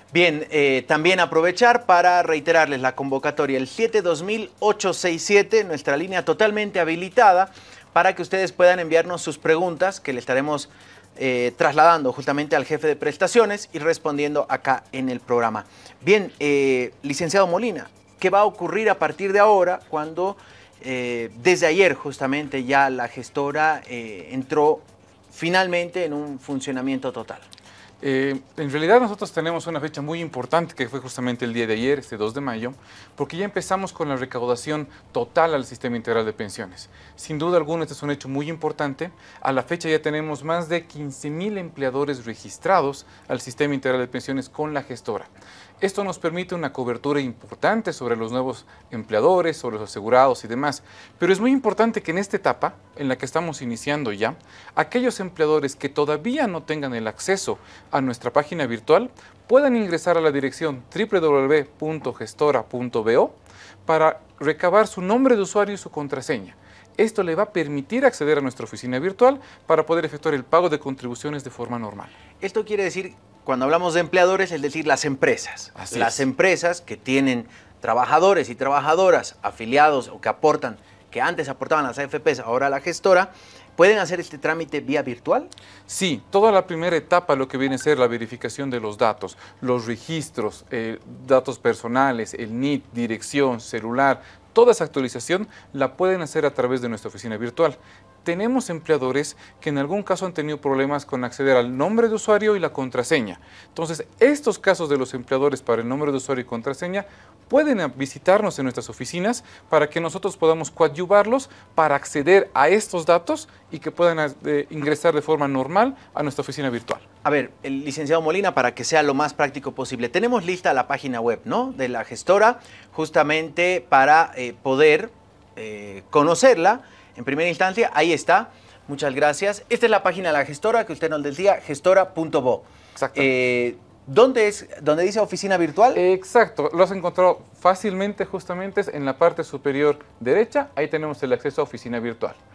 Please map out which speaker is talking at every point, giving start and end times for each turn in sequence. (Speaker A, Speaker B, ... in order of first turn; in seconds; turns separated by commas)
Speaker A: 0.1-27.4, Speaker B: 28.0-72.1, Speaker A: 72.4-85.5, Speaker B: 75.8-76.2, Speaker B: 85.9-117.0, Speaker A: 117.2-136.0, Speaker B: 132.9-133.3, Speaker B: 135.9-142.4